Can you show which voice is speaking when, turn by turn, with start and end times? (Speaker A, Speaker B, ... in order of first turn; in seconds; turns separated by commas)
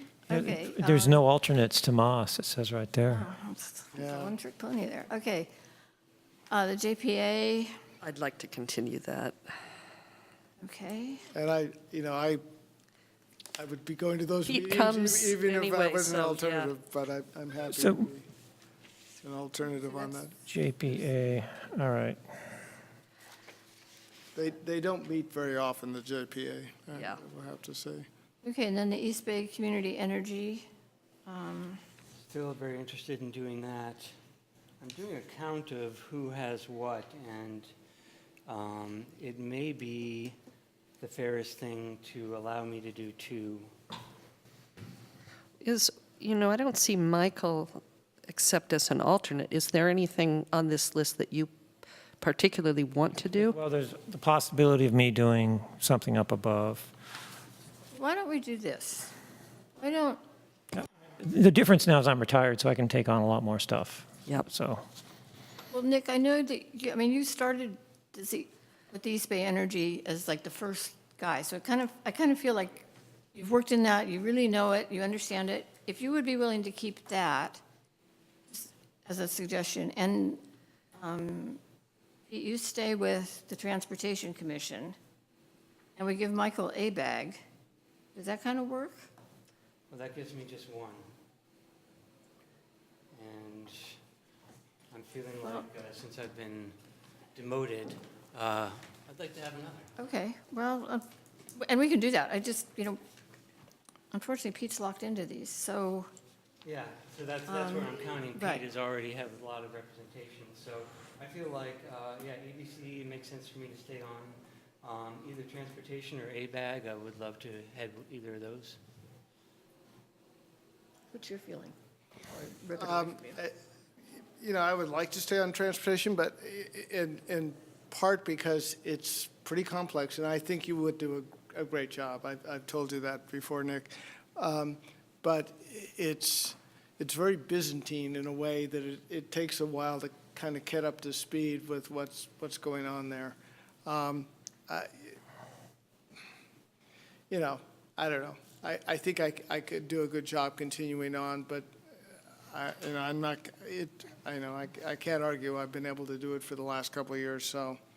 Speaker A: 0.3-1.2, Speaker B: 0.3-3.3, Speaker A: 3.1-5.5, Speaker C: 4.0-4.3, Speaker A: 6.5-7.7, Speaker D: 8.0-9.6, Speaker A: 10.6-11.3, Speaker C: 11.3-12.4, Speaker C: 13.6-18.3, Speaker D: 14.5-16.7, Speaker B: 17.7-18.1, Speaker C: 19.2-20.4, Speaker B: 20.5-22.2, Speaker C: 24.4-28.1, Speaker D: 26.9-27.2, Speaker A: 28.4-30.7, Speaker A: 31.3-31.8, Speaker E: 32.2-34.1, Speaker E: 34.8-37.7, Speaker E: 38.5-40.4, Speaker E: 41.0-43.7, Speaker D: 45.6-51.5, Speaker D: 52.2-53.6, Speaker B: 53.4-56.9, Speaker A: 57.9-59.1, Speaker A: 59.8-60.2, Speaker B: 60.7-64.8, Speaker A: 65.7-77.6, Speaker A: 78.5-80.4, Speaker A: 81.0-81.6, Speaker A: 82.3-85.0, Speaker A: 86.0-87.4, Speaker A: 88.2-89.1, Speaker E: 89.9-91.1, Speaker E: 93.1-94.0, Speaker E: 94.9-96.8, Speaker E: 97.3-99.9, Speaker A: 100.0-103.0, Speaker A: 104.1-106.1, Speaker E: 106.6-118.8, Speaker A: 107.5-108.6, Speaker A: 121.1-121.8, Speaker C: 122.4-123.6, Speaker A: 122.4-123.4, Speaker C: 124.4-145.2, Speaker C: 147.3-151.7, Speaker C: 152.5-157.8